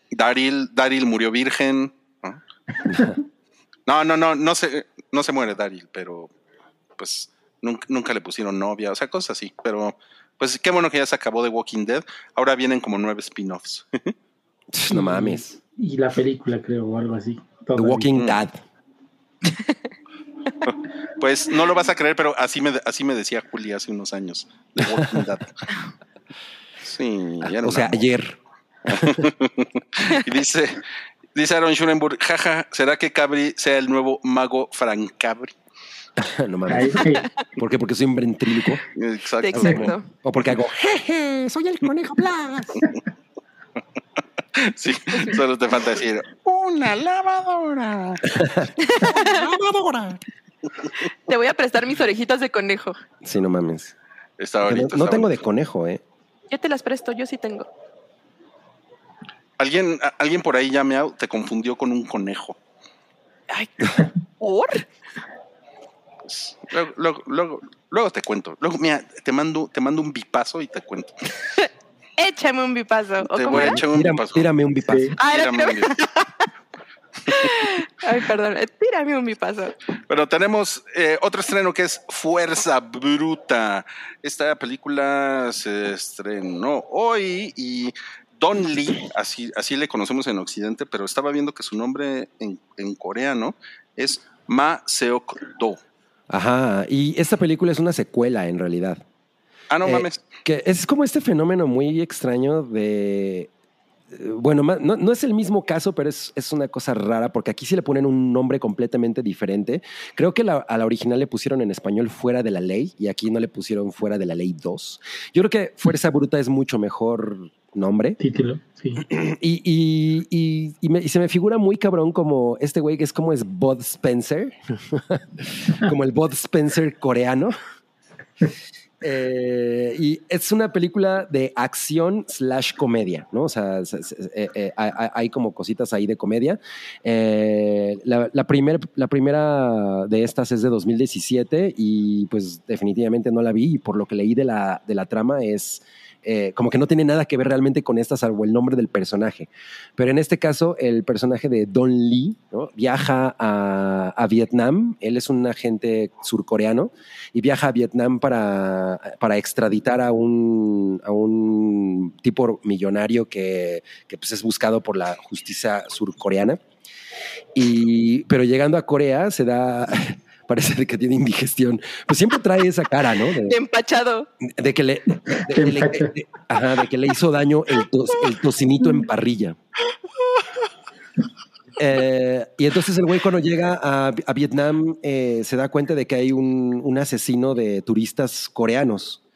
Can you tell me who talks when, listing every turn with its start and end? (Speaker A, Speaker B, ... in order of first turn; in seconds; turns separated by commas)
Speaker A: 0.1-2.4, Speaker A: 3.9-6.3, Speaker A: 7.0-14.1, Speaker B: 14.7-15.6, Speaker C: 14.9-18.1, Speaker B: 17.8-18.6, Speaker A: 18.1-18.4, Speaker A: 20.6-25.6, Speaker B: 24.8-25.3, Speaker A: 26.8-28.0, Speaker B: 27.6-29.3, Speaker A: 28.9-30.8, Speaker A: 31.3-35.5, Speaker B: 36.2-38.8, Speaker C: 36.7-37.2, Speaker A: 38.9-40.0, Speaker D: 39.4-40.0, Speaker B: 39.5-42.9, Speaker A: 44.5-48.4, Speaker B: 48.3-48.7, Speaker D: 48.8-49.5, Speaker A: 49.2-49.5, Speaker B: 49.2-50.2, Speaker D: 51.3-53.0, Speaker B: 53.2-53.9, Speaker A: 54.4-55.4, Speaker B: 54.6-56.0, Speaker D: 56.5-57.7, Speaker A: 59.6-62.6, Speaker D: 63.5-64.8, Speaker A: 66.2-71.3, Speaker D: 72.2-73.8, Speaker A: 73.2-74.5, Speaker B: 73.5-75.1, Speaker C: 74.9-75.2, Speaker A: 75.2-76.0, Speaker D: 75.2-76.5, Speaker D: 77.3-79.7, Speaker A: 80.1-95.8, Speaker B: 96.3-99.0, Speaker A: 99.7-100.2, Speaker B: 99.8-103.5, Speaker B: 104.1-118.2, Speaker C: 118.2-119.0, Speaker B: 119.0-127.5, Speaker B: 129.0-166.6, Speaker B: 167.5-173.6, Speaker D: 173.4-174.3, Speaker B: 174.4-179.6, Speaker C: 175.3-176.1, Speaker B: 181.8-189.2